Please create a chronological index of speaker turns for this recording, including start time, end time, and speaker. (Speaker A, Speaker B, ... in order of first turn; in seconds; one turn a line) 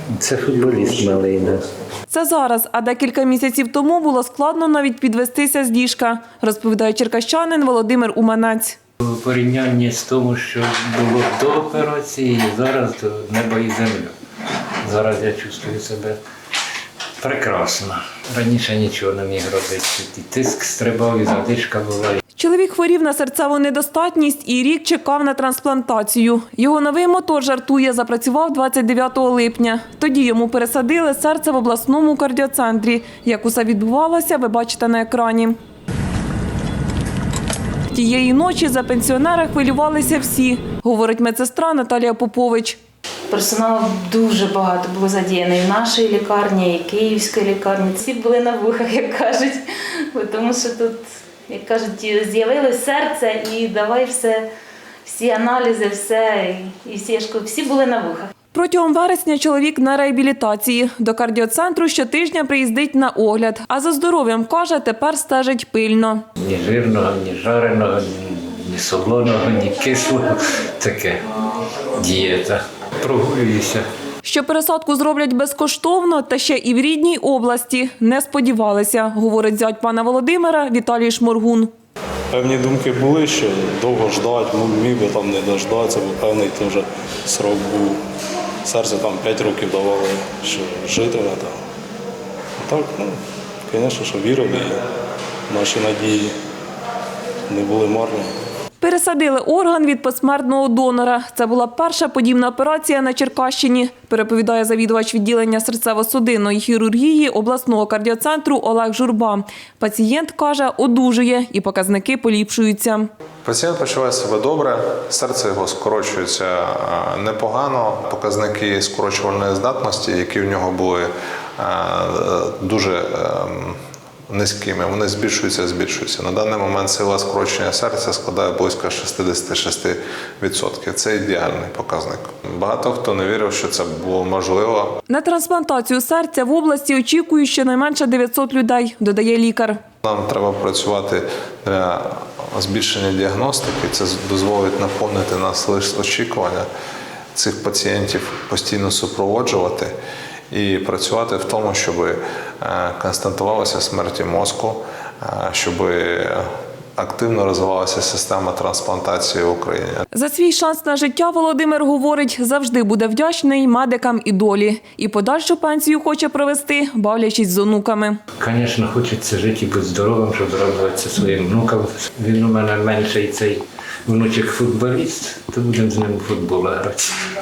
Speaker A: 0.1-1.6
Speaker B: 2.1-8.8
Speaker A: 9.0-14.1
Speaker A: 14.8-16.2
Speaker A: 17.2-22.2
Speaker B: 22.4-35.5
Speaker B: 37.9-42.8
Speaker C: 43.3-54.5
Speaker C: 55.0-58.3
Speaker B: 58.5-66.2
Speaker A: 66.4-71.2
Speaker A: 71.9-73.8
Speaker B: 74.2-81.7
Speaker D: 82.3-88.0
Speaker D: 88.6-91.5
Speaker D: 92.6-94.8
Speaker D: 95.5-96.3
Speaker D: 97.5-98.3
Speaker B: 98.8-113.1
Speaker E: 113.4-135.0
Speaker B: 135.1-139.8
Speaker E: 140.0-146.7
Speaker E: 147.3-149.9
Speaker E: 150.5-160.0
Speaker B: 160.1-168.2
Speaker A: 168.4-177.2